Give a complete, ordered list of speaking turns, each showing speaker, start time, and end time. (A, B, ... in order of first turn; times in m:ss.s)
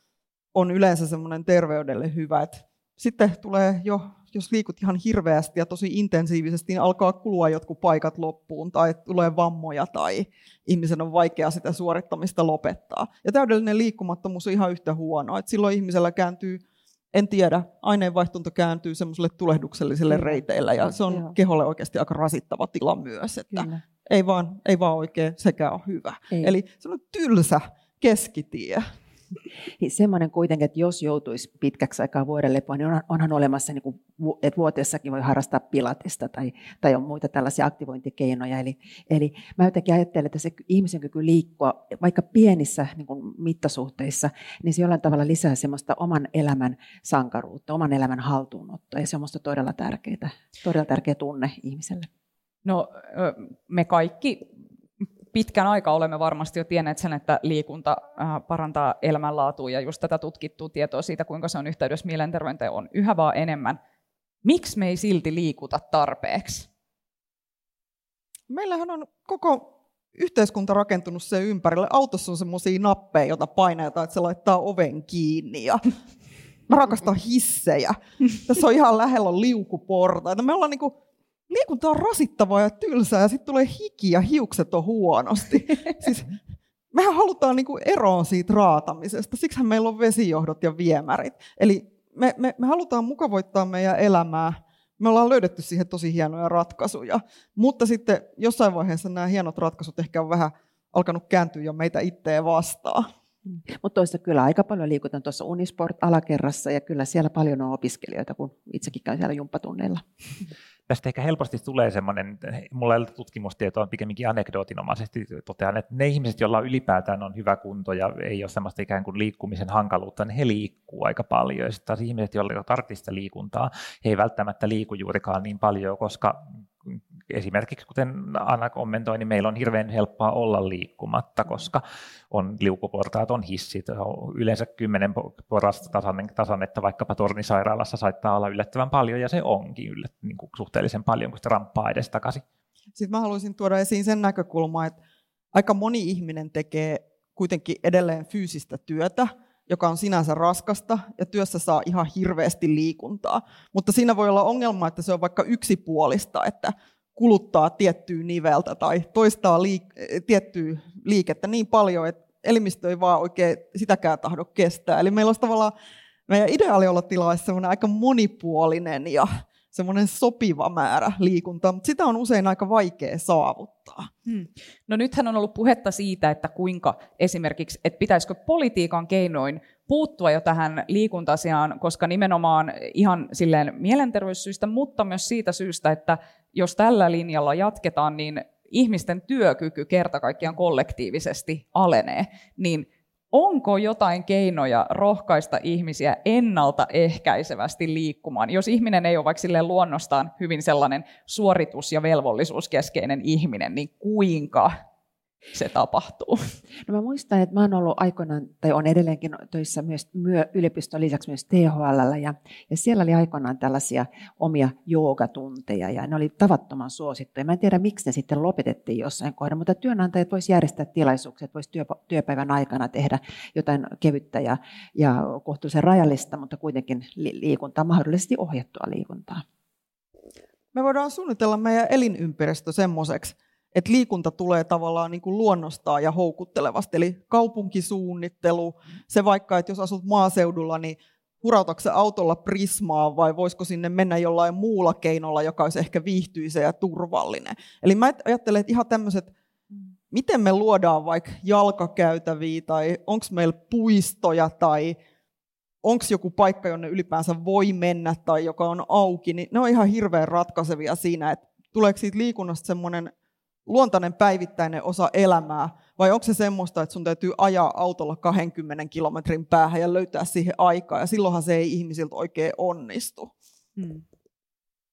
0:00.5-0:16.6 A
0:17.1-0:28.8 A
0:20.1-0:20.4 B
0:21.0-0:21.3 B
0:23.5-0:23.8 B
0:29.8-0:52.1 B
0:52.6-0:54.5 C
0:55.3-1:03.8 C
1:04.4-1:06.7 C
1:08.5-1:15.8 A
1:16.7-1:20.9 A
1:21.5-1:26.4 A
1:26.9-1:43.1 A
1:43.7-1:50.0 B
1:50.9-2:22.4 D
2:23.0-2:25.0 A
2:25.5-2:45.7 A
2:46.3-2:54.1 A
2:54.2-3:24.8 C
3:25.5-3:26.5 C
3:26.8-3:49.4 B
3:50.7-4:09.3 A
4:10.1-4:15.0 A
4:15.8-4:23.1 A
4:23.7-4:33.3 A
4:33.8-4:34.0 C